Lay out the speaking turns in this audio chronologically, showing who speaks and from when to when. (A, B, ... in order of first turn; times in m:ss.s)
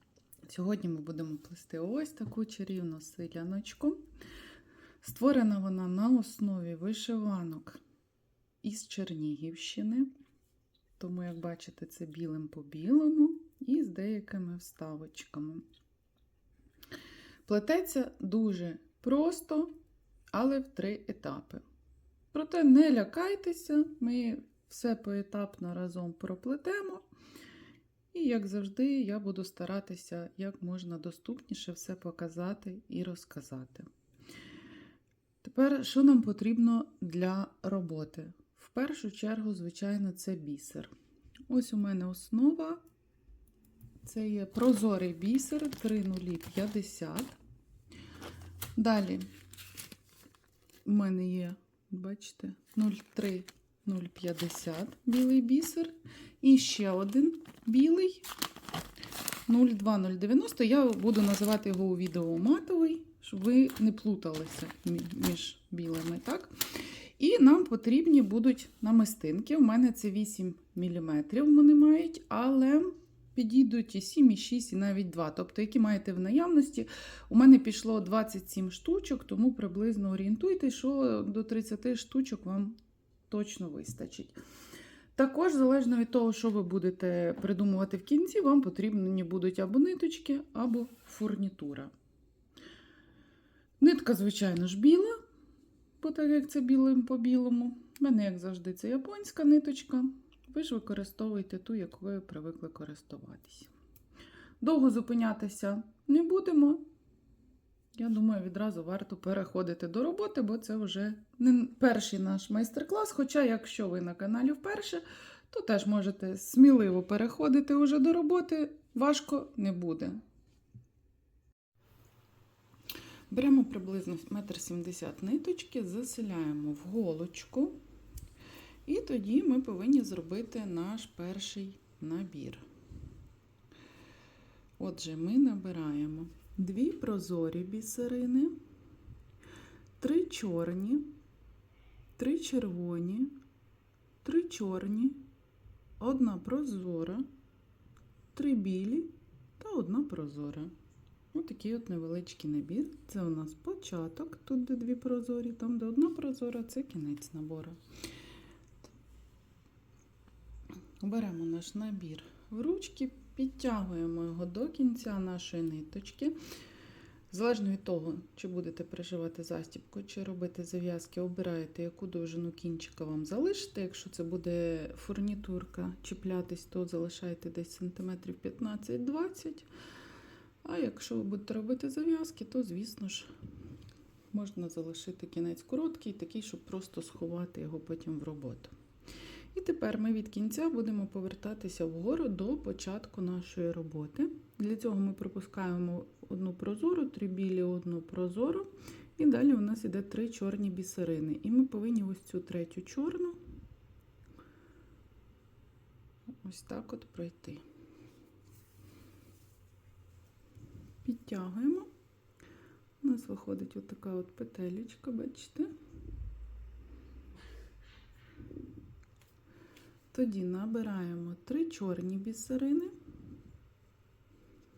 0:00.5-0:04.0 A
0:05.0-0:07.8 A
0:08.6-0:10.1 A
0:11.0-0:15.6 A
0:17.5-0:19.7 A
0:20.3-0:21.6 A
0:22.3-0:27.1 A
0:28.1-0:33.9 A
0:35.4-0:40.9 A
0:41.5-0:42.8 A
0:44.0-0:47.4 A
0:48.8-0:49.3 A
0:50.8-0:58.3 A
0:59.5-1:06.6 A
1:07.2-1:22.8 A
1:23.3-1:24.4 A
1:25.2-1:31.9 A
1:33.8-1:35.2 A
1:36.0-1:43.7 A
1:44.6-1:46.8 A
1:48.0-2:00.2 A
2:03.3-2:07.8 A
2:08.9-2:12.6 A
2:14.8-2:18.6 A
2:20.0-2:21.0 A
2:22.2-2:23.3 A
2:24.2-2:25.2 A
2:26.0-2:27.2 A
2:28.3-2:30.7 A
2:31.3-2:37.8 A
2:41.0-2:46.4 A
2:47.3-2:59.7 A
3:00.6-3:03.3 A
3:04.3-3:08.7 A
3:09.5-3:23.4 A
3:26.4-3:27.6 A
3:31.0-3:31.9 A
3:33.0-3:35.7 A
3:40.1-3:42.9 A